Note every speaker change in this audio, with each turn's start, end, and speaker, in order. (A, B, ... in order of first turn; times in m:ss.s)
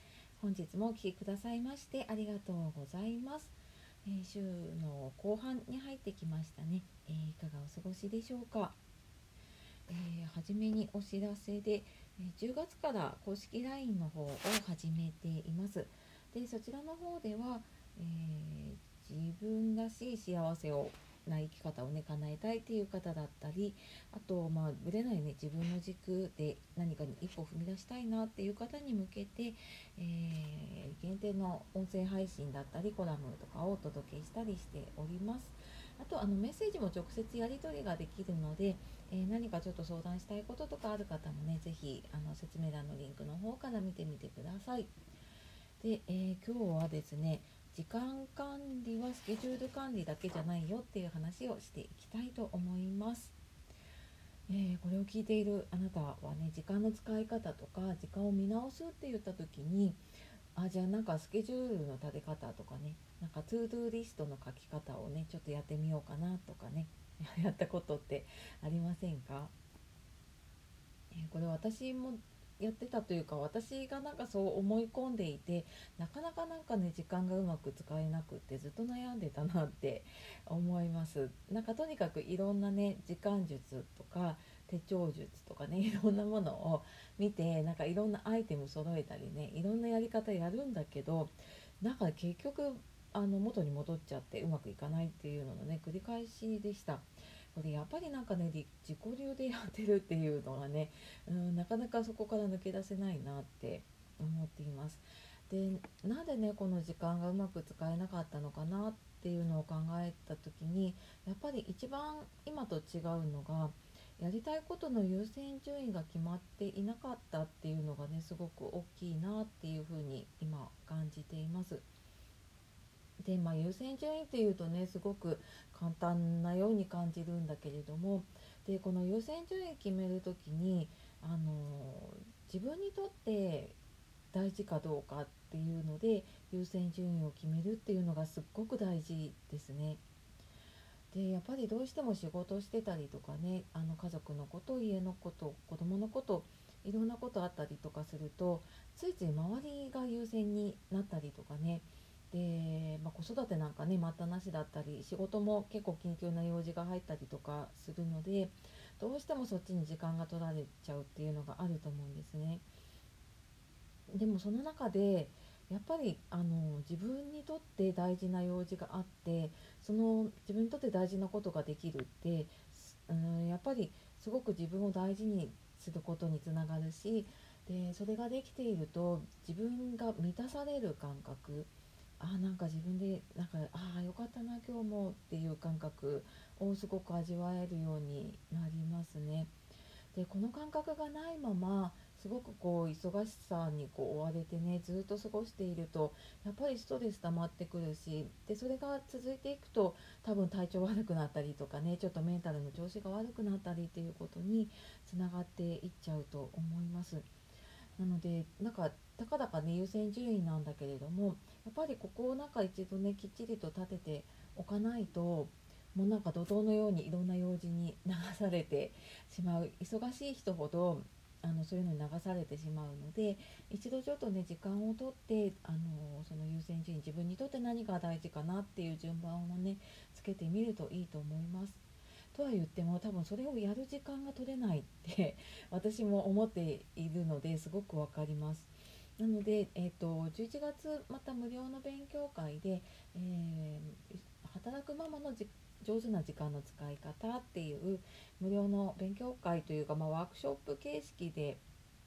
0:00.4-0:08.8 A
0:09.9-0:44.9 A
0:45.8-0:53.3 A
0:54.5-1:00.0 A
1:00.5-1:09.5 A
1:11.1-2:01.8 A
2:03.2-2:13.8 A
2:14.3-2:20.0 A
2:21.1-2:42.6 A
2:44.1-3:09.5 A
3:10.1-3:27.3 A
3:28.0-4:11.6 A